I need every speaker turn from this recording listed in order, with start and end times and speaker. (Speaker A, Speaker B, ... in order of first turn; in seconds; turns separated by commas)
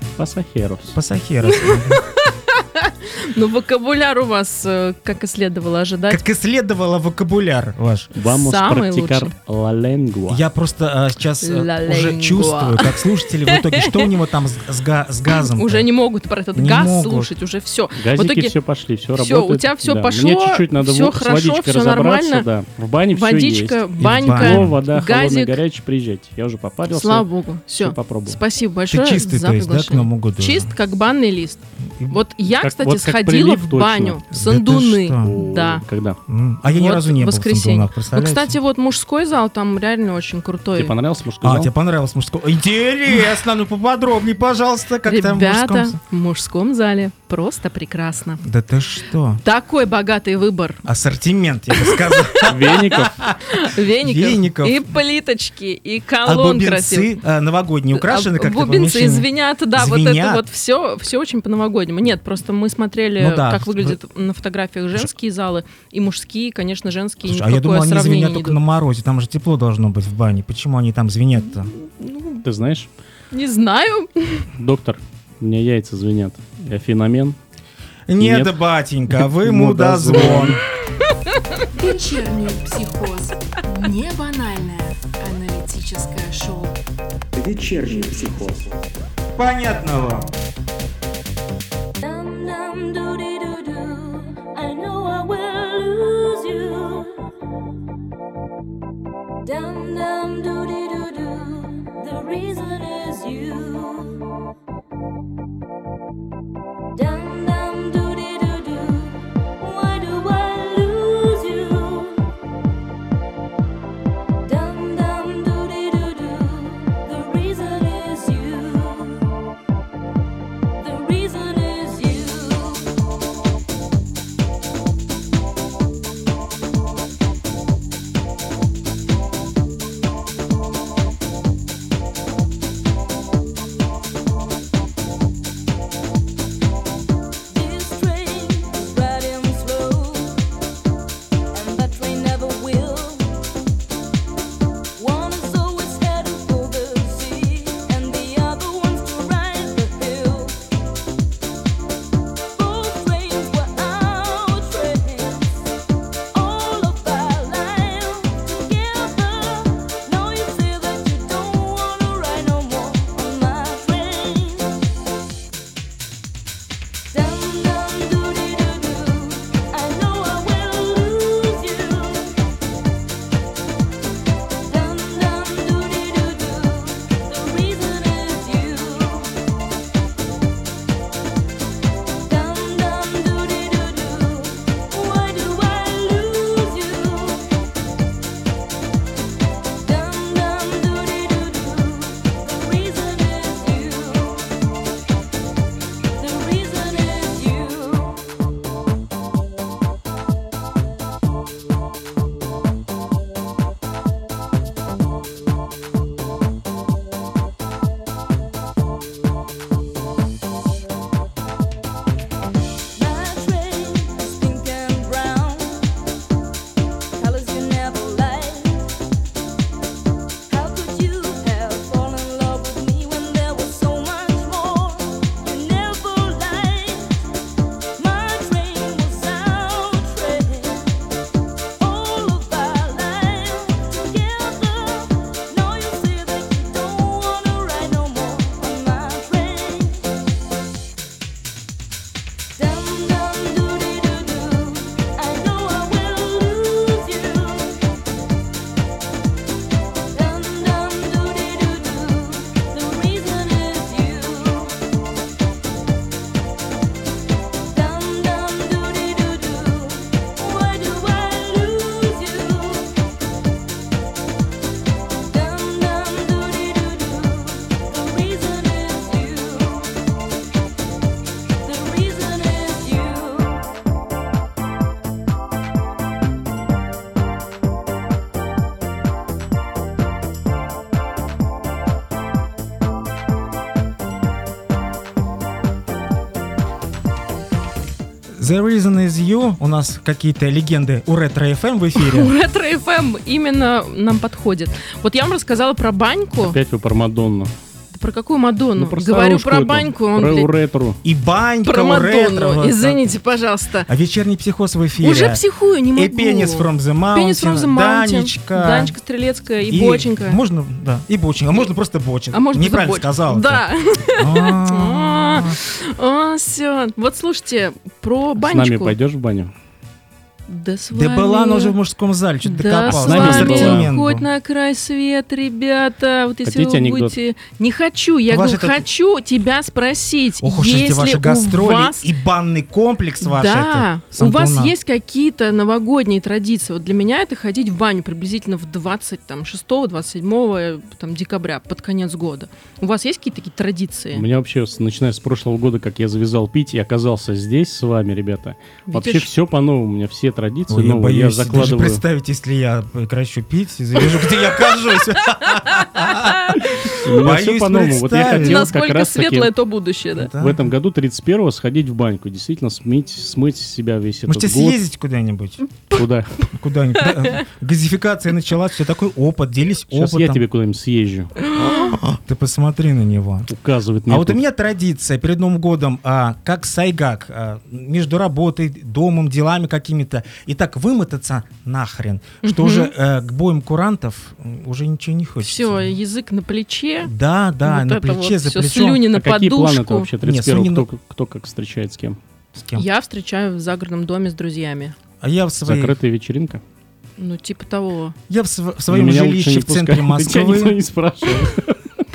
Speaker A: 0.2-1.0, Speaker B: 0.9-2.0, Speaker C: 1.7-6.2, Speaker B: 6.1-8.1, Speaker A: 8.2-10.4, Speaker C: 8.2-9.3, Speaker B: 10.3-15.9, Speaker C: 11.4-14.1, Speaker C: 15.3-18.5, Speaker B: 16.6-17.3, Speaker A: 17.9-28.4, Speaker C: 19.2-22.5, Speaker C: 23.1-25.6, Speaker B: 24.0-24.8, Speaker C: 26.9-35.8, Speaker B: 28.9-30.7, Speaker A: 32.5-34.2, Speaker B: 34.3-35.4, Speaker A: 35.2-36.2, Speaker B: 36.3-38.6, Speaker C: 36.7-40.9, Speaker A: 40.8-41.7, Speaker B: 41.4-46.0, Speaker C: 45.1-48.4, Speaker B: 48.4-49.4, Speaker C: 49.4-50.8, Speaker B: 50.9-54.9, Speaker C: 51.8-52.5, Speaker A: 52.4-53.1, Speaker C: 53.5-57.1, Speaker B: 56.2-60.5, Speaker C: 57.9-68.6, Speaker B: 63.2-64.0, Speaker B: 67.2-71.7, Speaker C: 72.0-72.4, Speaker A: 72.4-72.9, Speaker C: 73.3-74.5, Speaker A: 74.6-77.4, Speaker B: 78.1-80.6, Speaker A: 78.2-78.6, Speaker A: 79.1-80.6, Speaker D: 81.8-86.8, Speaker B: 89.4-90.3, Speaker E: 92.0-97.2, Speaker E: 99.4-104.3, Speaker E: 106.9-112.3, Speaker E: 114.4-119.3, Speaker E: 120.8-122.9, Speaker E: 137.5-140.4, Speaker E: 141.5-143.3, Speaker E: 145.0-150.6, Speaker E: 152.5-155.6, Speaker E: 156.3-164.8, Speaker E: 167.1-172.3, Speaker E: 174.6-179.3, Speaker E: 182.2-187.5, Speaker E: 189.8-194.5, Speaker E: 196.2-198.2, Speaker E: 212.9-215.9, Speaker E: 217.2-218.9, Speaker E: 220.5-227.2, Speaker E: 228.0-230.9, Speaker E: 231.8-240.1, Speaker E: 242.6-247.8, Speaker E: 250.1-254.7, Speaker E: 257.7-262.9, Speaker E: 265.2-269.9, Speaker E: 271.6-273.7, Speaker B: 288.4-292.3, Speaker C: 292.0-296.6, Speaker A: 296.4-297.5, Speaker C: 297.9-300.5, Speaker A: 298.8-301.0, Speaker B: 301.0-303.0, Speaker C: 301.6-303.9, Speaker B: 303.9-309.0, Speaker C: 305.0-310.4, Speaker B: 309.6-315.6, Speaker C: 312.3-318.9, Speaker A: 318.4-319.5, Speaker C: 320.5-321.8, Speaker B: 320.9-324.3, Speaker C: 322.4-332.1, Speaker A: 322.9-323.9, Speaker A: 326.4-327.1, Speaker B: 328.3-328.9, Speaker B: 330.4-334.7, Speaker C: 333.2-344.2, Speaker A: 344.1-352.0, Speaker C: 348.9-349.3, Speaker B: 350.7-358.7, Speaker C: 355.8-357.0, Speaker A: 357.0-359.5, Speaker C: 358.3-360.3, Speaker B: 360.2-360.7, Speaker A: 360.4-364.8, Speaker B: 364.3-365.6, Speaker A: 365.9-366.3, Speaker B: 366.5-370.4, Speaker A: 369.9-371.3, Speaker B: 371.5-373.5, Speaker C: 371.6-372.0, Speaker A: 373.5-374.4, Speaker B: 374.1-385.9, Speaker C: 382.4-382.9, Speaker C: 385.4-387.1, Speaker B: 387.0-389.1, Speaker C: 387.6-390.1, Speaker A: 389.1-392.2, Speaker B: 390.2-390.9, Speaker B: 392.5-392.9, Speaker C: 392.8-394.9, Speaker B: 395.2-396.0, Speaker A: 395.6-396.6, Speaker C: 397.2-398.2, Speaker B: 398.3-400.8, Speaker A: 398.9-401.8